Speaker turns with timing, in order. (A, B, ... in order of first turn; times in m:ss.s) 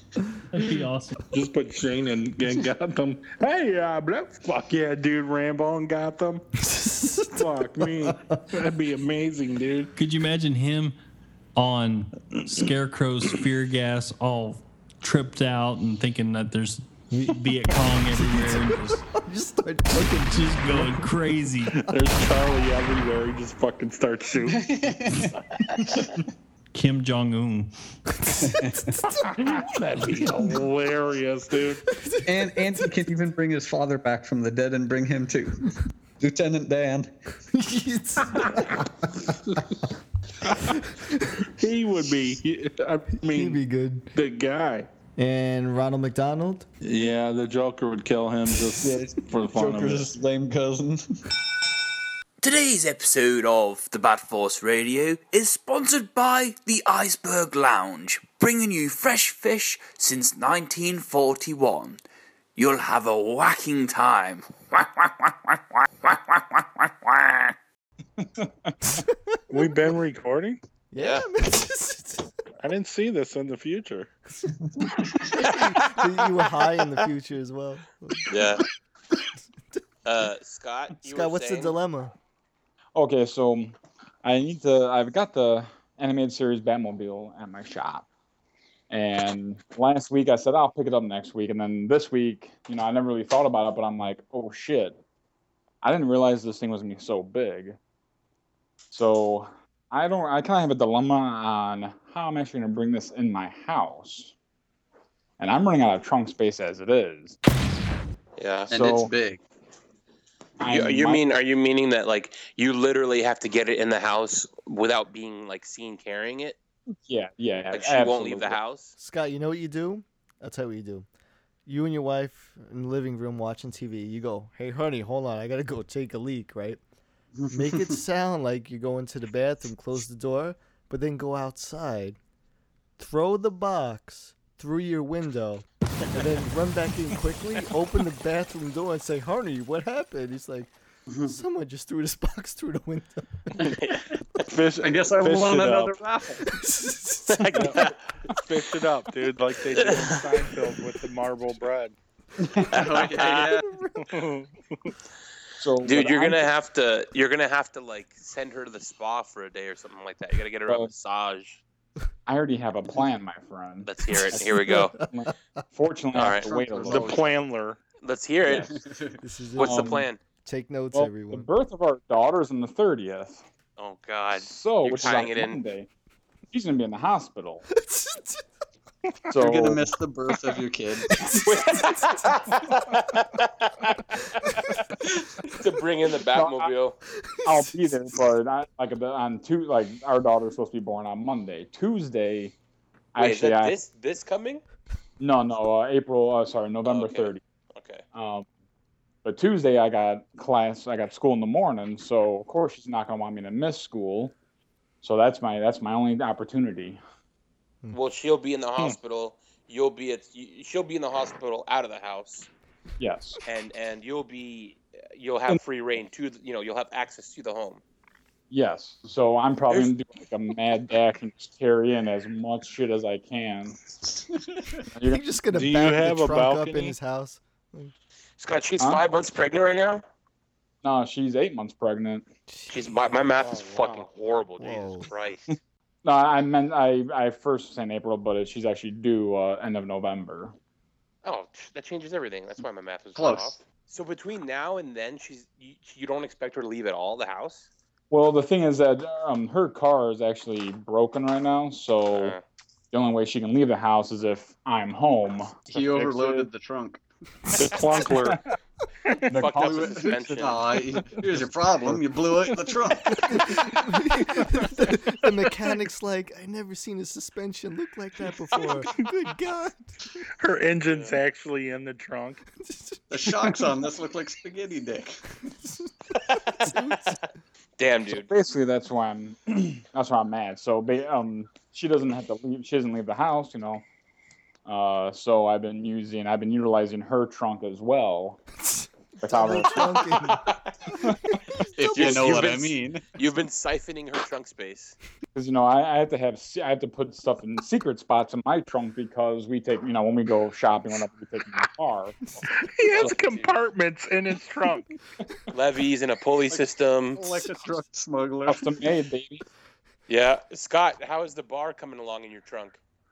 0:00.5-0:01.2 A
0:01.3-0:06.4 B
0:06.6-0:08.3 C
0:07.2-0:09.9 B
0:10.0-0:10.9 A
0:11.6-0:19.0 A
0:17.1-0:21.1 C
0:20.3-0:21.7 A
0:21.7-0:24.7 B
0:24.5-0:25.8 D
0:26.7-0:27.7 A
0:28.2-0:29.6 C
0:28.4-0:28.9 D
0:29.3-0:31.8 B
0:30.2-0:30.5 C
0:31.9-0:32.8 C
0:32.2-0:37.1 D
0:37.5-0:39.3 C
0:40.6-0:41.4 C
0:41.5-0:43.6 B
0:43.3-0:44.1 C
0:44.1-0:44.9 B
0:45.2-0:46.7 C
0:46.8-0:50.1 B
0:48.8-0:51.0 D
0:52.4-1:02.0 E
1:02.6-1:07.5 E
1:08.2-1:08.7 F
1:08.9-1:09.6 C
1:09.5-1:10.6 B
1:10.9-1:12.3 C
1:11.0-1:11.2 G
1:12.6-1:14.1 B
1:14.7-1:15.3 D
1:15.3-1:18.5 C
1:15.4-1:15.8 G
1:18.3-1:18.6 G
1:20.0-1:21.8 G
1:21.0-1:22.1 C
1:22.9-1:28.0 F
1:28.9-1:35.0 F
1:35.8-1:37.8 F
1:38.9-1:44.3 F
1:45.4-1:47.4 F
1:48.4-1:48.8 G
1:48.7-1:49.1 F
1:48.7-1:49.4 D
1:50.6-1:51.2 F
1:50.6-1:56.6 G
1:57.1-1:58.6 F
1:57.7-1:58.9 G
1:59.0-2:01.1 C
2:01.6-2:06.8 C
2:07.4-2:08.0 D
2:07.5-2:12.2 C
2:13.0-2:20.7 C
2:21.2-2:23.3 C
2:23.7-2:24.4 G
2:24.5-2:26.0 B
2:24.8-2:26.5 D
2:26.5-2:27.7 C
2:27.3-2:27.9 G
2:27.5-2:32.0 B
2:29.7-2:30.4 G
2:32.4-2:33.6 D
2:32.7-2:33.6 G
2:33.7-2:34.0 C
2:34.0-2:34.9 B
2:35.6-2:36.5 F
2:35.8-2:41.6 G
2:42.3-2:47.2 F
2:43.8-2:45.0 G
2:44.3-2:45.1 C
2:46.1-2:47.3 G
2:46.9-2:47.8 B
2:48.0-2:48.8 G
2:48.5-2:49.2 D
2:49.2-2:51.5 C
2:49.6-2:50.2 G
2:49.6-2:50.0 F
2:50.9-2:53.4 F
2:53.8-2:55.6 G
2:54.4-2:55.9 F
2:56.5-2:57.6 F
2:57.7-2:58.4 C
2:59.3-2:59.8 F
2:59.4-3:01.1 D
3:01.1-3:02.4 C
3:01.5-3:03.8 G
3:05.6-3:07.0 G
3:06.3-3:06.7 F
3:07.2-3:08.0 C
3:07.4-3:12.5 F
3:13.1-3:13.7 F
3:13.2-3:14.6 G
3:15.2-3:17.4 F
3:16.8-3:18.0 G
3:18.1-3:18.5 F
3:19.2-3:24.3 F
3:25.0-3:27.0 F
3:27.9-3:32.5 G
3:33.0-3:33.4 F
3:33.4-3:37.8 G
3:38.5-3:43.8 F
3:44.1-3:44.6 D
3:45.0-3:45.2 F
3:45.0-3:47.9 C
3:45.5-3:46.9 B
3:48.4-3:50.0 G
3:50.8-3:52.2 F
3:52.5-3:53.2 C
3:52.7-3:55.4 G
3:53.5-3:54.0 F
3:54.6-3:55.1 C
3:56.0-4:00.5 F
4:01.2-4:07.6 G
4:03.2-4:03.6 D
4:08.1-4:12.3 F
4:12.1-4:12.4 G
4:12.9-4:16.5 F
4:15.7-4:17.0 D
4:17.6-4:18.4 B
4:18.0-4:18.4 F
4:19.3-4:20.8 G
4:19.3-4:23.6 D
4:19.3-4:20.1 F
4:23.3-4:29.9 C
4:30.4-4:32.4 B
4:30.8-4:31.2 G
4:32.6-4:33.0 C
4:33.1-4:35.2 D
4:36.1-4:37.2 G
4:36.6-4:37.2 C
4:37.8-4:38.3 G
4:38.1-4:43.8 F
4:44.6-4:48.4 F
4:48.6-4:50.5 C
4:49.2-4:50.1 F
4:49.7-4:50.6 G
4:51.6-4:52.1 C
4:51.8-4:53.0 D
4:51.9-4:55.0 G
4:55.3-5:02.2 F
5:02.5-5:04.8 B
5:02.9-5:03.5 G
5:05.5-5:07.4 G
5:07.1-5:08.9 D
5:08.5-5:09.4 F
5:10.1-5:12.8 G